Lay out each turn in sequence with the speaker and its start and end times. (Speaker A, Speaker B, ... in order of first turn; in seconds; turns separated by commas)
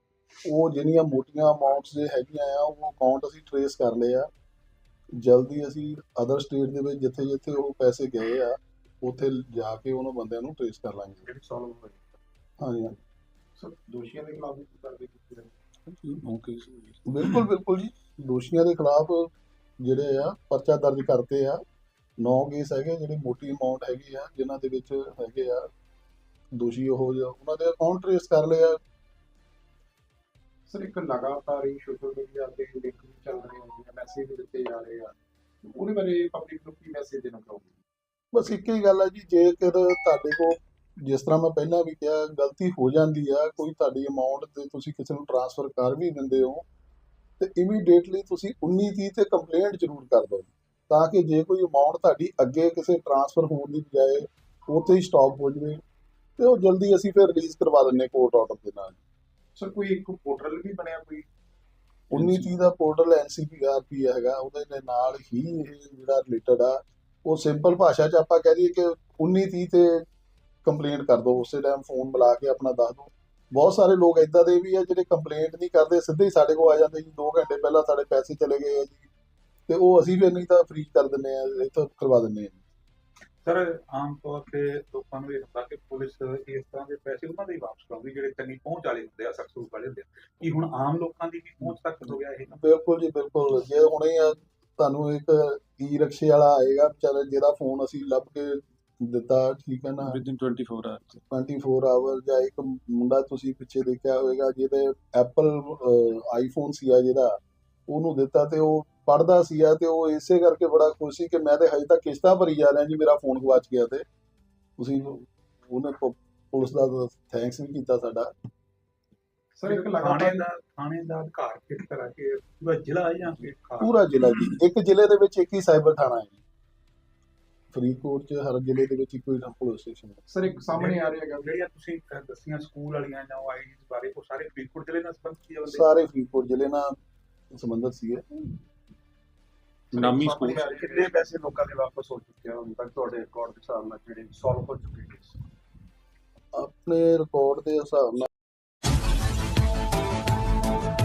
Speaker A: 0.5-4.3, Speaker A: 5.2-11.2, Speaker B: 11.3-12.2, Speaker A: 12.6-13.0, Speaker B: 13.6-15.5, Speaker A: 17.1-19.3, Speaker A: 19.8-21.6, Speaker A: 22.2-25.7, Speaker A: 26.5-28.8, Speaker B: 30.7-37.8, Speaker A: 38.3-46.6, Speaker A: 47.4-55.8, Speaker A: 56.4-59.0, Speaker B: 59.6-61.3, Speaker B: 62.1-62.5, Speaker A: 62.1-70.0, Speaker A: 70.7-79.1, Speaker A: 79.7-82.6, Speaker C: 83.5-92.6, Speaker A: 92.5-100.2, Speaker C: 100.3-101.0, Speaker A: 101.3-114.0, Speaker A: 114.8-118.3, Speaker B: 119.6-120.5, Speaker C: 119.7-124.4, Speaker A: 123.8-126.4, Speaker A: 127.7-130.2, Speaker B: 130.3-131.5, Speaker C: 130.7-135.9, Speaker A: 135.7-137.0, Speaker A: 137.5-138.6, Speaker B: 139.9-145.4, Speaker C: 139.9-141.2, Speaker A: 146.5-148.3